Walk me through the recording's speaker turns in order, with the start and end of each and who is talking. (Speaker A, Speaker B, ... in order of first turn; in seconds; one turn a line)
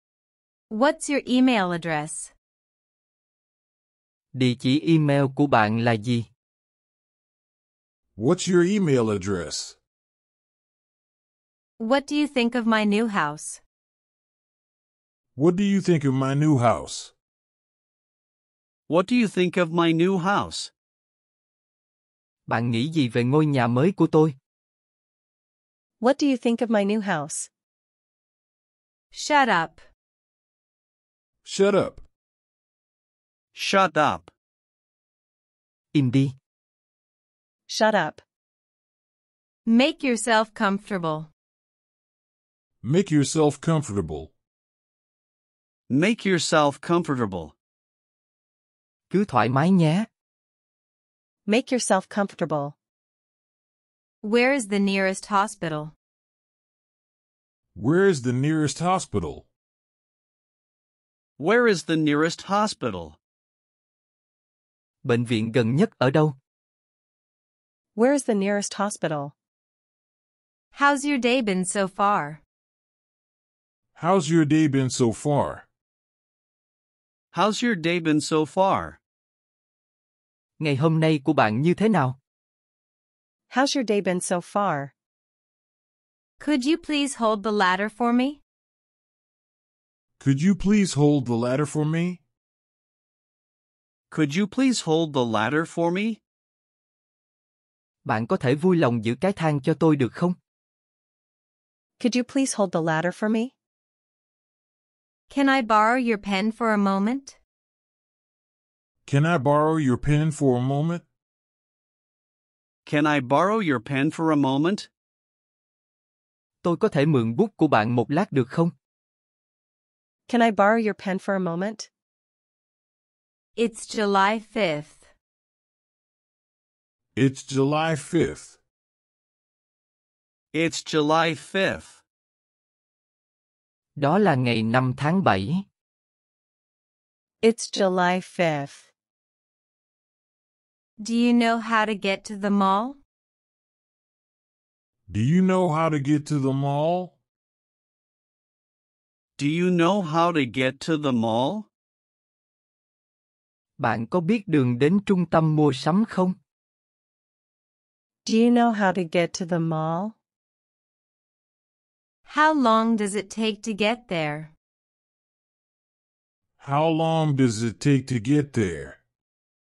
Speaker A: 0.7-2.3
Speaker B: 4.3-6.3
Speaker C: 8.2-9.8
Speaker A: 11.8-13.6
Speaker C: 15.4-17.1
Speaker D: 18.9-20.7
Speaker B: 22.5-24.4
Speaker E: 26.0-27.5
Speaker A: 29.1-29.8
Speaker C: 31.4-32.0
Speaker D: 33.5-34.3
Speaker B: 35.9-36.4
Speaker E: 37.7-38.2
Speaker A: 39.6-41.3
Speaker C: 42.8-44.3
Speaker D: 45.9-47.5
Speaker B: 49.1-50.1
Speaker E: 51.5-52.8
Speaker A: 54.2-55.9
Speaker C: 57.7-59.5
Speaker D: 61.4-63.2
Speaker B: 65.0-66.4
Speaker E: 68.0-69.3
Speaker A: 70.7-72.4
Speaker C: 74.0-75.7
Speaker D: 77.3-79.0
Speaker B: 80.6-82.2
Speaker E: 83.5-84.9
Speaker A: 86.4-88.4
Speaker C: 90.2-92.2
Speaker D: 94.1-96.2
Speaker B: 98.1-100.4
Speaker E: 102.0-103.5
Speaker A: 105.3-107.4
Speaker C: 109.1-111.0
Speaker D: 112.9-114.9
Speaker B: 116.6-118.7
Speaker E: 120.3-121.9
Speaker A: 123.6-125.1
Speaker C: 127.2-128.6
Speaker D: 130.5-132.0
Speaker B: 134.0-135.7
Speaker E: 137.4-138.9
Speaker A: 141.0-143.0
Speaker C: 145.1-147.2
Speaker D: 149.4-151.7
Speaker B: 153.8-156.3
Speaker E: 158.2-160.2
Speaker A: 162.3-164.5
Speaker C: 166.6-169.0